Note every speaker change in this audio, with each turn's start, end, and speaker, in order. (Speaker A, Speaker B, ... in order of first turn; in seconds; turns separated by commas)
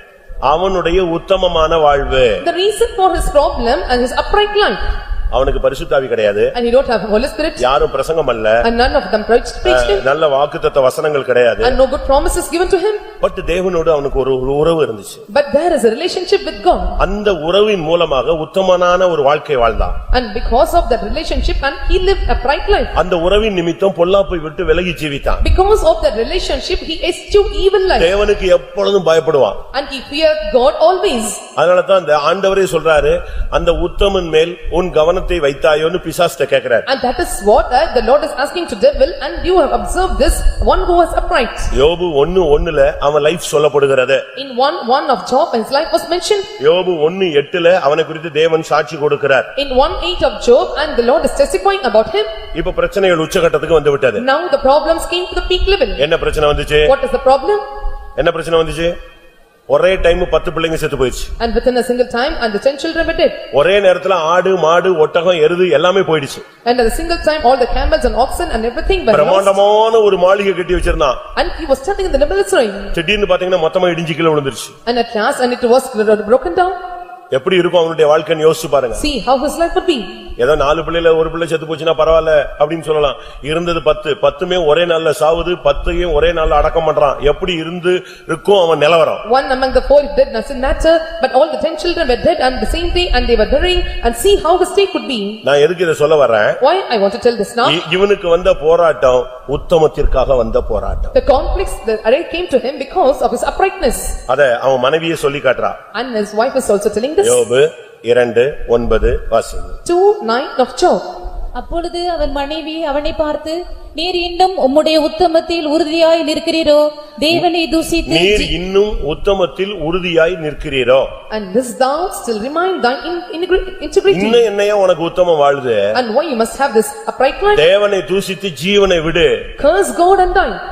Speaker A: 0.5-2.4, Speaker B: 2.4-4.8, Speaker A: 5.3-6.5, Speaker B: 6.5-7.7, Speaker A: 7.6-8.7, Speaker B: 8.6-10.0, Speaker A: 9.7-11.8, Speaker B: 11.6-13.0, Speaker A: 13.2-15.2, Speaker B: 15.3-17.0, Speaker A: 17.0-20.0, Speaker B: 20.1-22.9, Speaker A: 22.9-25.4, Speaker B: 25.4-28.1, Speaker A: 28.0-29.6, Speaker B: 29.7-31.4, Speaker A: 31.6-36.9, Speaker B: 36.9-41.7, Speaker A: 41.7-44.2, Speaker B: 44.4-46.5, Speaker A: 46.6-49.5, Speaker B: 49.6-52.3, Speaker A: 52.5-54.2, Speaker B: 54.2-56.0, Speaker A: 56.0-56.9, Speaker B: 56.9-57.6, Speaker A: 58.2-59.0, Speaker A: 59.7-61.3, Speaker B: 61.4-63.4, Speaker A: 63.5-66.5, Speaker B: 66.7-69.6, Speaker A: 69.1-71.2, Speaker B: 71.4-72.9, Speaker A: 72.9-74.8, Speaker B: 74.9-76.8, Speaker A: 77.3-79.0, Speaker B: 79.0-80.2, Speaker A: 80.4-89.2, Speaker B: 89.2-95.4, Speaker A: 95.4-96.6, Speaker B: 96.6-97.8, Speaker A: 97.6-101.1, Speaker B: 101.1-104.2, Speaker A: 104.3-105.8, Speaker B: 105.9-107.4, Speaker A: 107.2-109.8, Speaker B: 109.9-111.0, Speaker C: 111.6-118.5, Speaker A: 118.0-121.1, Speaker B: 121.3-124.4, Speaker A: 124.1-126.0, Speaker B: 125.9-127.6, Speaker A: 127.5-129.5, Speaker B: 129.6-130.6